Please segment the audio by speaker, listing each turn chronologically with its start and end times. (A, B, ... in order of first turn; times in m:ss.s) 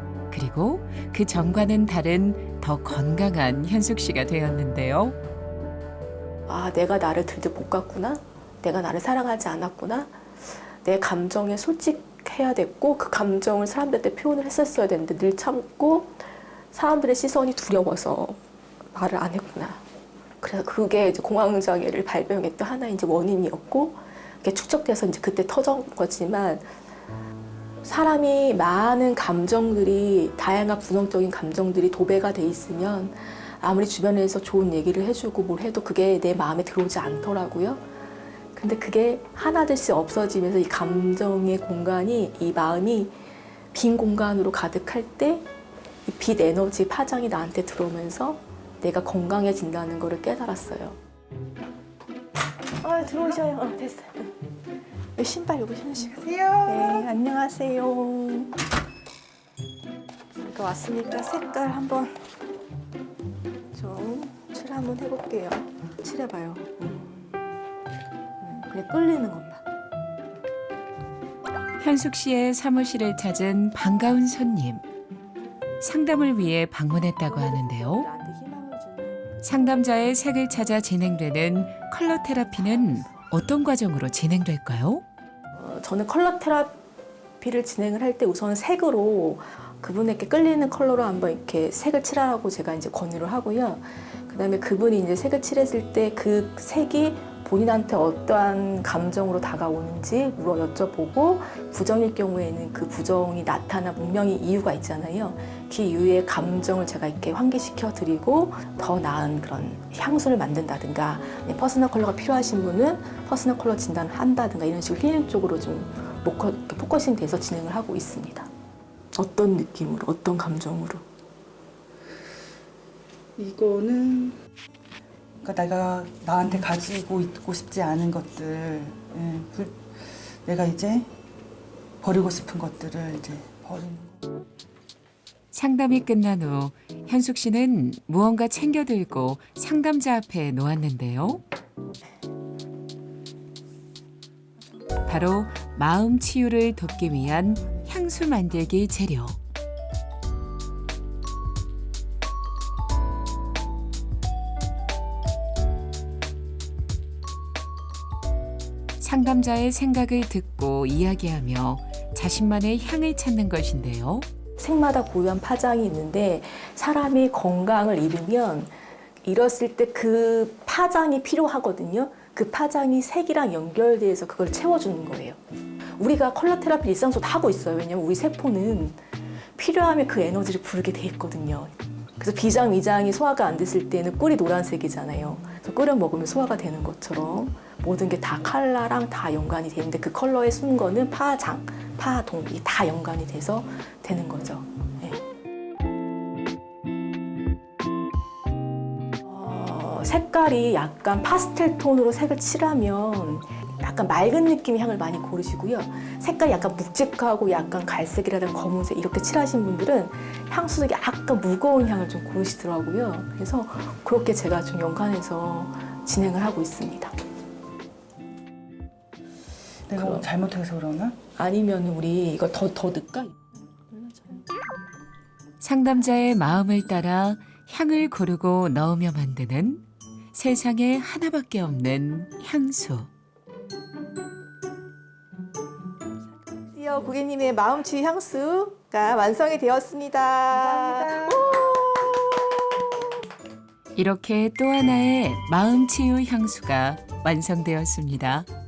0:00.3-0:05.2 A
0:06.5-0:18.4 B
0:18.9-0:19.8 B
0:20.4-0:26.7 B
0:27.8-0:37.8 B
0:38.6-0:43.2 B
0:43.7-0:45.5 B
0:46.1-0:51.0 B
0:52.8-0:54.3 B
0:55.2-0:58.5 B
0:56.2-0:57.1 C
1:00.4-1:02.3 B
1:03.7-1:07.2 B
1:08.4-1:09.6 B
1:11.8-1:14.8 A
1:15.8-1:18.1 A
1:17.2-1:19.4 B
1:19.4-1:25.0 A
1:25.5-1:26.8 B
1:27.4-1:58.5 B
1:59.2-2:01.0 B
2:03.4-2:04.4 C
2:05.4-2:09.8 C
2:10.4-2:11.1 C
2:12.0-2:14.2 C
2:15.5-2:21.4 A
2:25.0-2:29.4 A
2:39.0-2:44.3 A
2:44.6-2:48.7 B
2:49.2-2:55.4 B
2:56.0-2:59.0 B
2:59.6-3:15.2 B
3:19.2-3:37.2 B
3:39.9-3:41.2 C
3:40.0-3:40.3 B
3:41.4-3:44.5 B
3:45.6-3:49.8 A
3:50.3-3:53.1 A
3:56.5-4:02.1 B
4:00.6-4:01.4 C
4:04.0-4:08.5 A